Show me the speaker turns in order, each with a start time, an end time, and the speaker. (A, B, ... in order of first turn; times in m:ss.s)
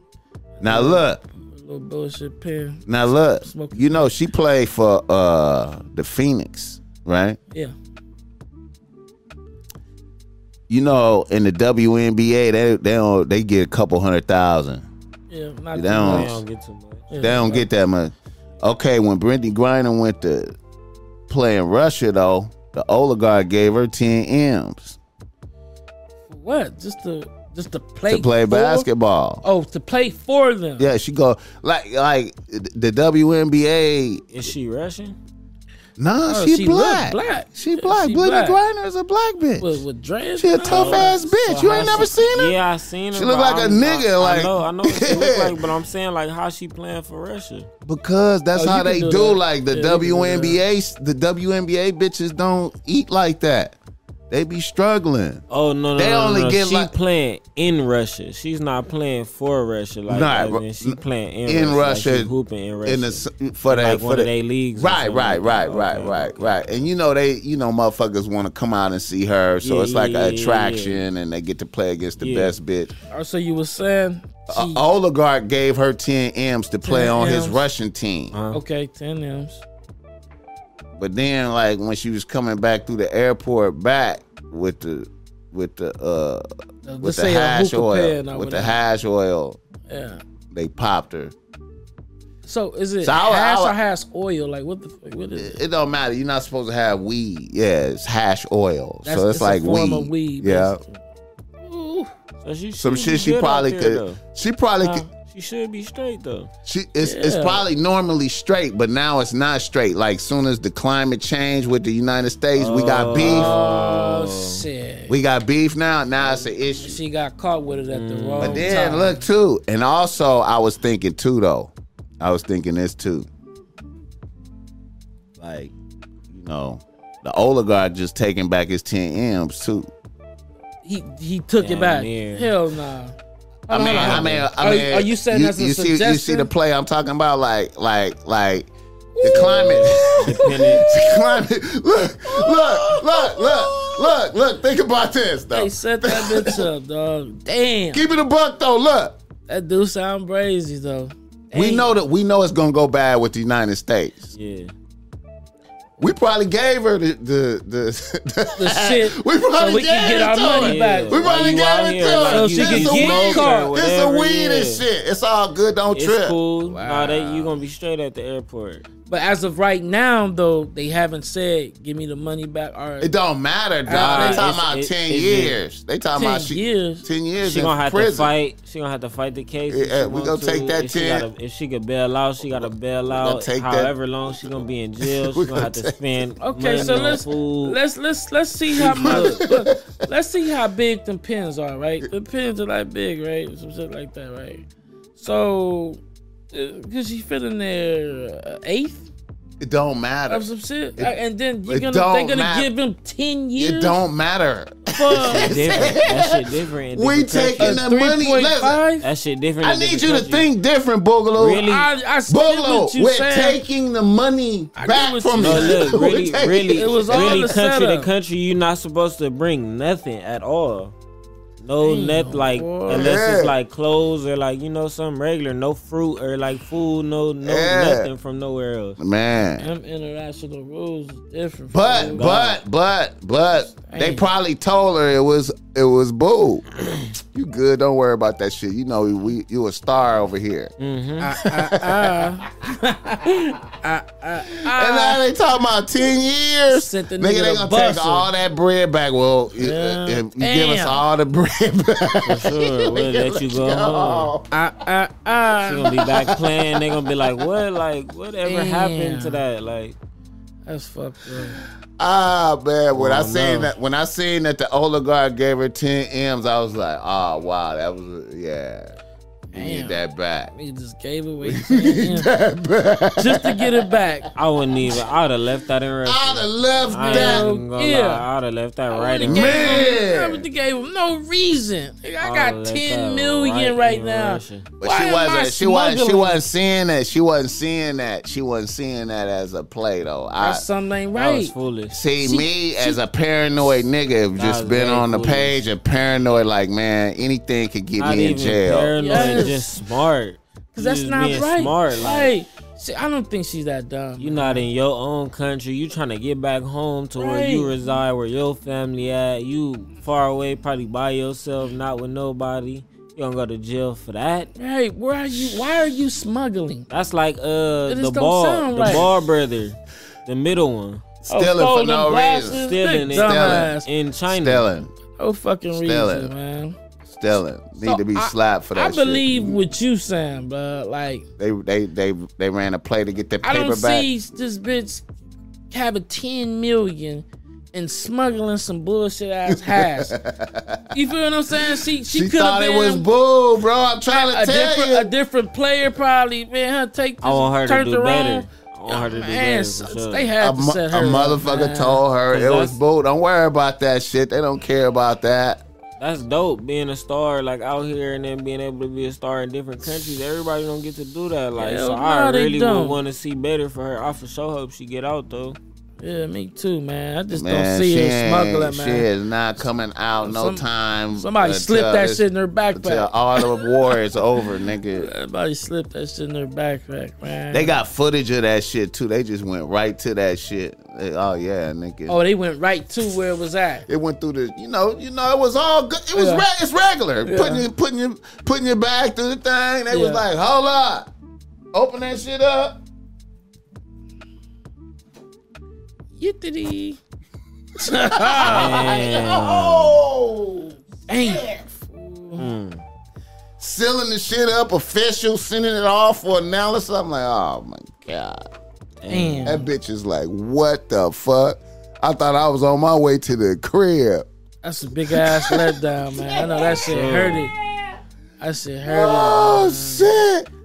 0:00.6-0:01.2 A
0:00.6-0:04.1 B
0:02.9-0:07.4 A
0:10.7-0:14.9 A
0:15.3-0:16.4 B
0:15.7-0:16.4 A
0:15.9-0:17.1 C
0:17.1-0:17.7 B
0:17.2-0:20.5 A
0:21.3-0:25.0 A
0:26.3-0:28.9 B
0:28.1-0:29.4 A
0:29.4-0:30.9 B
0:30.8-0:34.2 A
0:34.3-0:35.2 C
0:36.0-0:39.8 A
0:36.2-0:38.6 B
0:39.6-0:42.3 B
0:40.4-0:42.6 A
0:40.6-0:47.7 C
0:43.1-0:45.6 A
0:47.8-0:53.8 A
0:48.5-0:50.6 B
0:54.3-0:55.4 A
0:55.5-1:06.6 C
0:56.0-0:56.9 A
1:00.1-1:02.3 A
1:02.8-1:12.9 A
1:09.6-1:11.0 C
1:12.2-1:12.5 C
1:13.1-1:14.8 B
1:14.5-1:18.3 A
1:16.8-1:17.6 B
1:18.3-1:18.6 C
1:18.5-1:19.6 B
1:21.0-1:26.4 A
1:26.8-1:28.8 B
1:27.0-1:29.6 A
1:29.9-1:30.2 B
1:30.5-1:31.3 A
1:32.4-1:35.6 B
1:33.0-1:33.7 A
1:35.4-1:40.8 A
1:39.0-1:41.0 B
1:41.6-1:42.1 B
1:42.4-1:44.2 C
1:42.8-1:45.1 A
1:44.8-1:45.1 B
1:45.3-1:46.5 C
1:46.6-1:53.6 A
1:47.0-1:47.6 B
1:52.5-1:54.6 C
1:53.1-1:55.2 B
1:55.1-1:57.0 A
1:56.2-1:59.2 B
1:57.9-1:58.8 C
1:58.4-2:03.3 A
2:05.4-2:05.7 A
2:06.3-2:09.9 A
2:10.8-2:13.2 B
2:11.6-2:12.5 C
2:13.7-2:16.5 B
2:13.7-2:26.6 A
2:13.8-2:14.5 C
2:19.2-2:21.0 B
2:19.2-2:20.9 C
2:22.3-2:24.0 B
2:25.5-2:28.0 B
2:27.9-2:29.2 A
2:29.5-2:31.9 B
2:31.5-2:34.1 A
2:34.3-2:34.7 C
2:36.0-2:46.4 A
2:38.6-2:41.6 B
2:40.3-2:44.8 C
2:42.2-2:43.8 B
2:45.9-2:48.9 C
2:46.6-2:47.5 B
2:49.0-2:53.1 B
2:53.0-2:58.3 A
2:53.8-2:54.5 B
2:53.9-2:55.6 C
2:56.1-2:57.0 B
2:57.4-3:07.8 C
2:59.7-3:01.3 A
3:02.5-3:06.0 A
3:06.4-3:16.0 B
3:08.7-3:09.4 C
3:08.7-3:09.9 A
3:16.5-3:19.0 B
3:19.6-3:20.4 A
3:20.3-3:24.0 B
3:21.7-3:22.7 A
3:23.6-3:26.4 A
3:24.9-3:26.0 B
3:25.2-3:27.8 C
3:26.9-3:28.8 A
3:27.6-3:29.1 B
3:29.0-3:30.5 C
3:29.6-3:31.7 A
3:31.4-3:31.9 C
3:31.6-3:33.6 B
3:32.3-3:37.6 A
3:34.7-3:36.2 B
3:35.4-3:40.9 C
3:36.7-3:38.1 B
3:41.6-3:49.0 C
3:41.8-3:43.2 B
3:42.9-3:43.5 A
3:47.4-3:48.1 A
3:49.0-3:49.7 A
3:49.6-3:52.3 B
3:51.7-3:56.7 A
3:52.0-3:52.6 C
3:53.6-3:54.2 B
3:57.3-4:00.7 A
4:00.8-4:01.3 C
4:01.2-4:05.2 B
4:01.4-4:02.3 A
4:04.4-4:14.5 A
4:06.7-4:08.3 B
4:09.5-4:11.0 B
4:12.2-4:14.3 C
4:14.5-4:16.1 B
4:15.6-4:20.0 C
4:16.2-4:16.8 A
4:18.4-4:19.4 B
4:20.6-4:21.6 B
4:22.0-4:28.9 A
4:22.9-4:23.7 C
4:29.5-4:32.3 B
4:29.5-4:30.5 A
4:31.4-4:33.9 A
4:33.2-4:34.3 B
4:34.3-4:39.9 C
4:36.0-4:37.5 A
4:36.9-4:38.3 B
4:38.9-4:46.4 B
4:39.2-4:40.4 A
4:42.2-4:44.7 C
4:44.8-4:50.6 A
4:50.4-4:51.5 B
4:51.2-4:52.0 C
4:51.9-4:59.6 A
4:52.2-4:53.0 B
4:54.4-4:55.6 C
4:58.0-5:02.3 C
4:59.0-4:59.8 B
5:00.7-5:04.6 B
5:04.2-5:14.5 C
5:07.2-5:07.7 B
5:14.6-5:16.9 B
5:16.9-5:21.0 C
5:17.9-5:19.1 B
5:18.8-5:19.1 A
5:21.2-5:23.7 A
5:21.3-5:23.9 B
5:22.5-5:24.7 C
5:24.3-5:24.9 A
5:25.2-5:26.8 B
5:25.8-5:26.3 A
5:27.1-5:29.6 A
5:27.8-5:31.2 B
5:31.4-5:34.1 A
5:33.4-5:35.1 B
5:35.7-5:40.2 B
5:39.5-5:40.9 A
5:40.9-5:43.1 B
5:42.0-5:45.1 A
5:44.1-5:52.0 B
5:47.2-5:50.3 C
5:50.4-5:55.6 A
5:52.3-5:52.8 C
5:56.0-6:05.6 C
6:01.6-6:03.0 B
6:06.0-6:09.1 B
6:07.3-6:15.1 A
6:10.2-6:13.7 B
6:14.8-6:17.8 B
6:17.5-6:22.2 A
6:22.1-6:23.9 B
6:23.9-6:31.1 A
6:26.1-6:26.5 B
6:27.2-6:27.7 B
6:29.9-6:30.2 B
6:31.7-6:32.8 A
6:36.1-6:37.0 B
6:37.8-6:39.0 B
6:38.1-6:41.5 A
6:38.4-6:40.0 C
6:41.1-6:42.5 B
6:42.4-6:42.8 C
6:43.6-6:48.4 A
6:49.0-6:49.5 C
6:49.1-6:49.7 B
6:49.4-6:54.2 A
6:54.6-6:57.5 B
6:55.1-6:56.7 A
6:56.7-6:57.5 C
6:58.4-7:00.2 B
6:58.8-7:00.4 A